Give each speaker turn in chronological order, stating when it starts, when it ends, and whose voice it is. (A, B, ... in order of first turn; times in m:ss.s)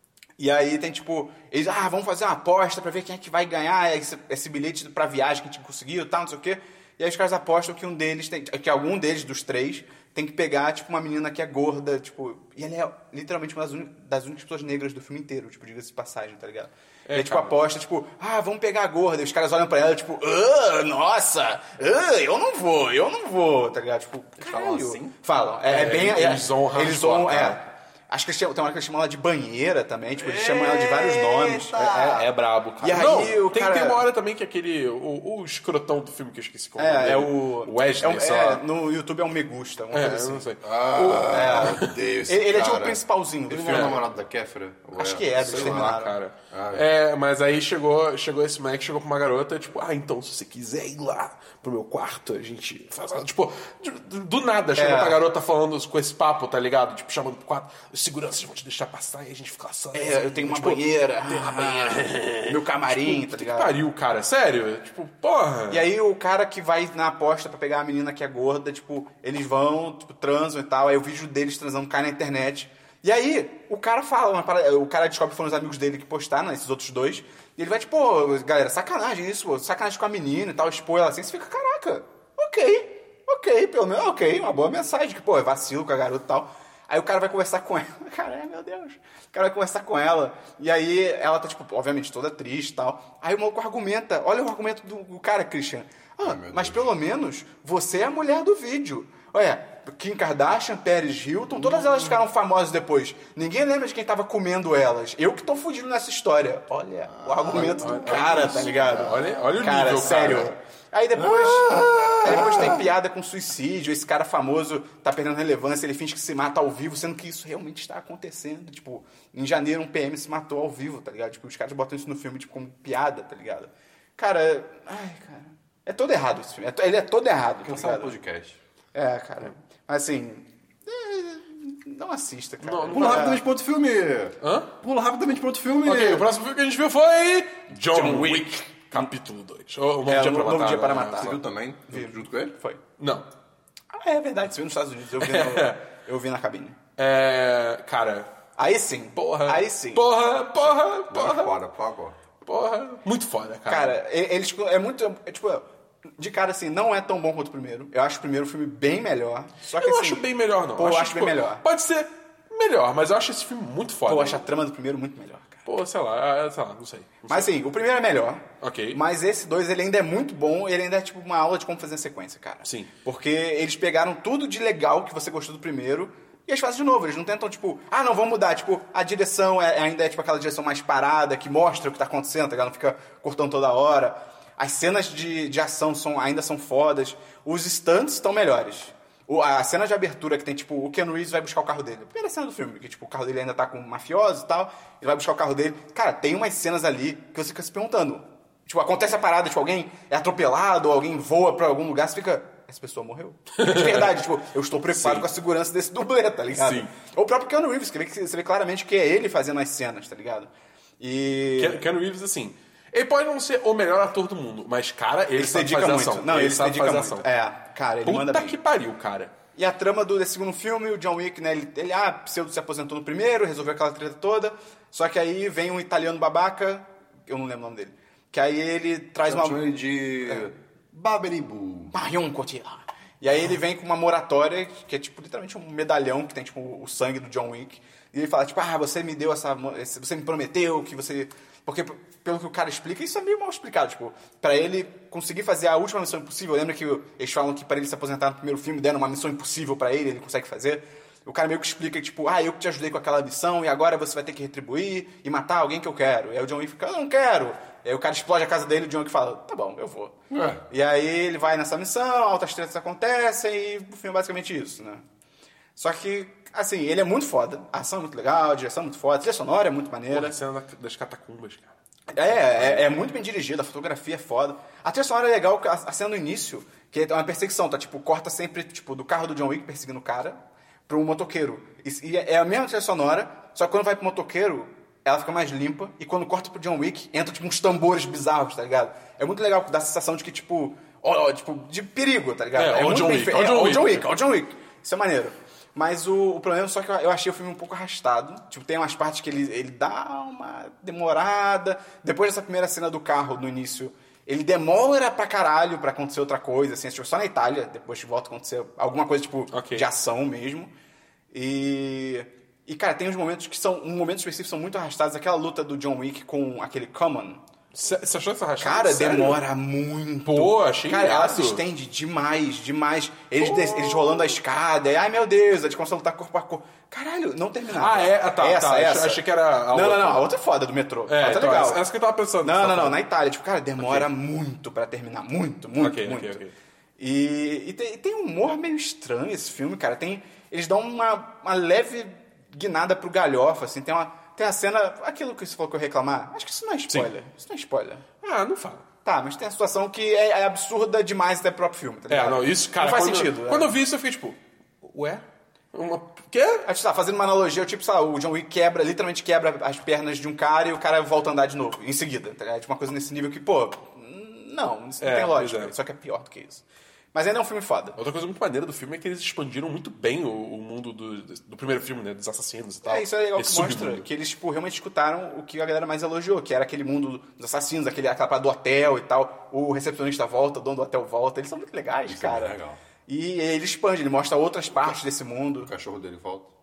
0:00.4-0:32.3 A
0:17.1-0:17.6 B
0:24.4-0:25.1 B
0:25.7-0:27.6 B
0:30.2-0:32.2 C
0:31.9-0:38.6 B
0:32.8-0:34.0 A
0:36.8-0:40.5 A
0:39.9-0:41.9 B
0:40.6-0:46.0 C
0:41.2-0:44.0 A
0:43.7-0:44.0 B
0:45.0-0:46.2 A
0:45.4-1:05.9 B
0:46.5-0:46.9 C
0:54.8-0:55.2 A
0:59.9-1:03.8 A
1:05.7-2:08.1 A
1:36.2-1:36.9 C
1:47.1-1:49.4 C
1:47.5-1:50.5 B
1:51.2-1:52.9 C
2:07.6-2:08.6 C
2:08.9-2:13.4 A
2:12.6-2:13.4 B
2:12.9-2:16.3 C
2:14.4-2:14.7 B
2:15.8-2:21.4 B
2:17.9-2:19.1 A
2:20.1-2:22.8 A
2:21.2-2:22.6 C
2:23.0-2:23.3 B
2:23.9-2:26.8 A
2:25.2-2:25.8 B
2:27.0-2:28.3 B
2:28.6-2:30.1 A
2:29.1-2:31.6 B
2:31.1-2:32.2 C
2:32.4-2:34.0 B
2:33.7-2:35.6 A
2:36.2-2:41.6 A
2:39.8-2:44.5 B
2:44.1-2:45.6 A
2:45.6-2:47.5 B
2:47.3-3:31.8 A
2:48.6-2:49.0 B
2:52.6-2:52.9 B
3:23.6-3:24.2 B
3:24.9-3:25.3 B
3:26.5-3:26.9 B
3:31.6-3:37.3 B
3:35.4-3:38.6 A
3:38.0-3:39.3 B
3:39.6-3:49.6 A
3:49.3-3:51.9 C
3:51.9-4:20.2 A
4:20.3-4:20.6 C
4:20.7-4:25.0 A
4:25.8-4:30.4 A
4:30.1-4:32.9 B
4:32.1-5:10.7 A
4:52.6-4:54.1 B
5:09.5-5:09.9 B
5:11.3-5:17.4 A
5:17.7-5:19.4 B
5:18.6-5:29.2 A
5:20.3-5:21.6 B
5:23.4-5:24.4 B
5:27.7-5:30.3 B
5:29.7-5:31.8 A
5:31.1-5:33.0 B
5:32.4-5:36.4 A
5:33.8-5:34.1 B
5:35.8-5:36.5 B
5:37.0-5:48.0 A
5:48.2-5:48.8 B
5:49.0-5:53.8 A
5:52.1-5:56.7 B
5:56.6-6:08.0 A
6:05.0-6:05.7 B
6:08.0-6:14.1 B
6:12.8-6:25.7 A
6:22.1-6:22.8 C
6:24.7-6:25.0 C
6:25.6-6:26.5 C